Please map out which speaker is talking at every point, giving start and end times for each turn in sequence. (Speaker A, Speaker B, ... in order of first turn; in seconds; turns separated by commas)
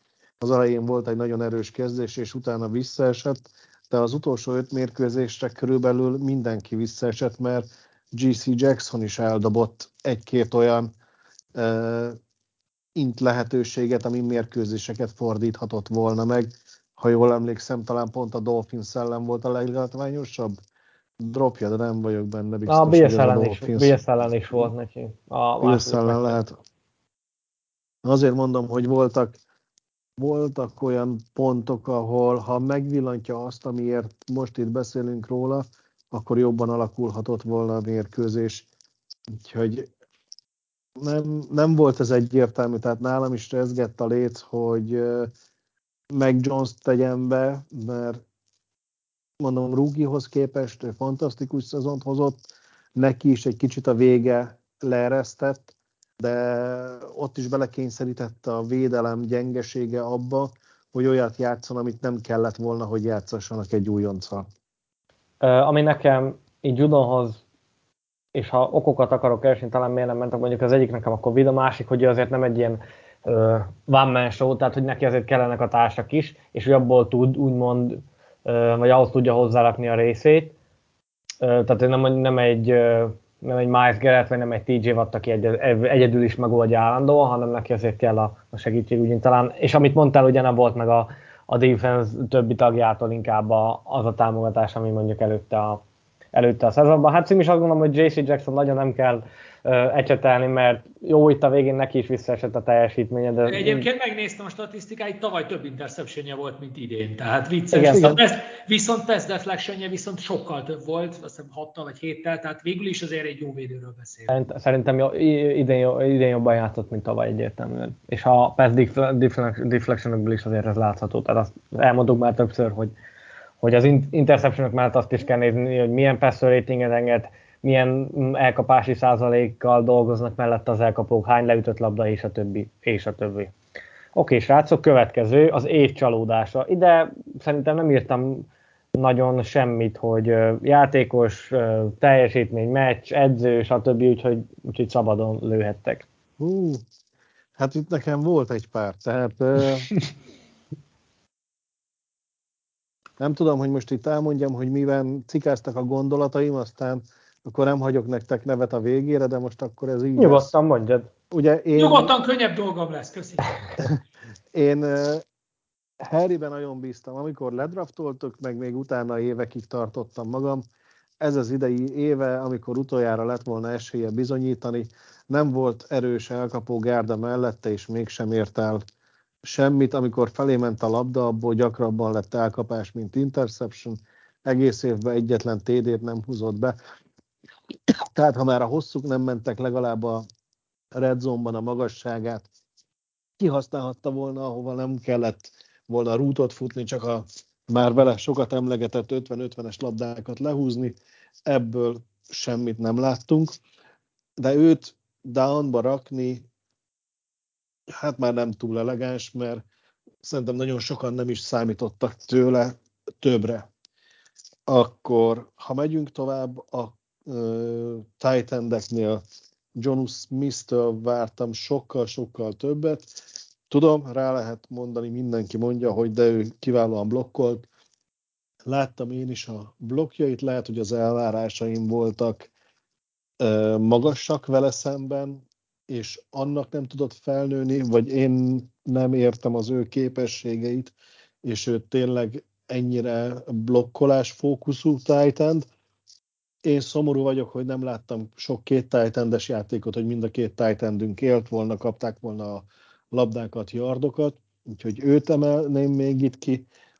Speaker A: 0.4-10.9, Speaker A: 11.5-12.2, Speaker A: 12.9-20.6, Speaker A: 21.2-23.9, Speaker B: 22.7-26.4, Speaker A: 25.6-26.6, Speaker A: 28.0-29.4, Speaker A: 30.2-38.6, Speaker A: 39.4-39.9, Speaker A: 41.0-45.3, Speaker A: 46.1-48.2, Speaker A: 49.4-52.4, Speaker A: 52.9-64.5, Speaker B: 65.4-67.4, Speaker B: 68.3-80.5, Speaker B: 81.4-95.8, Speaker B: 96.3-103.8, Speaker C: 103.5-114.3, Speaker B: 107.7-108.2, Speaker B: 114.3-122.9, Speaker B: 123.6-133.5, Speaker B: 134.1-146.0, Speaker A: 146.4-146.8, Speaker A: 147.6-149.9, Speaker A: 153.2-160.5, Speaker B: 160.2-161.1, Speaker A: 161.3-162.1, Speaker C: 161.8-163.5, Speaker A: 164.5-165.2, Speaker A: 166.0-170.6, Speaker A: 171.2-178.8, Speaker A: 179.4-186.7, Speaker A: 187.9-190.2, Speaker A: 190.9-192.5, Speaker A: 193.4-200.9, Speaker A: 201.5-203.5, Speaker A: 204.4-206.4, Speaker A: 207.9-209.6, Speaker A: 210.2-213.7, Speaker A: 214.7-219.2, Speaker A: 219.7-223.1, Speaker A: 223.7-227.7, Speaker A: 228.7-232.5, Speaker A: 233.4-245.7, Speaker A: 246.6-256.6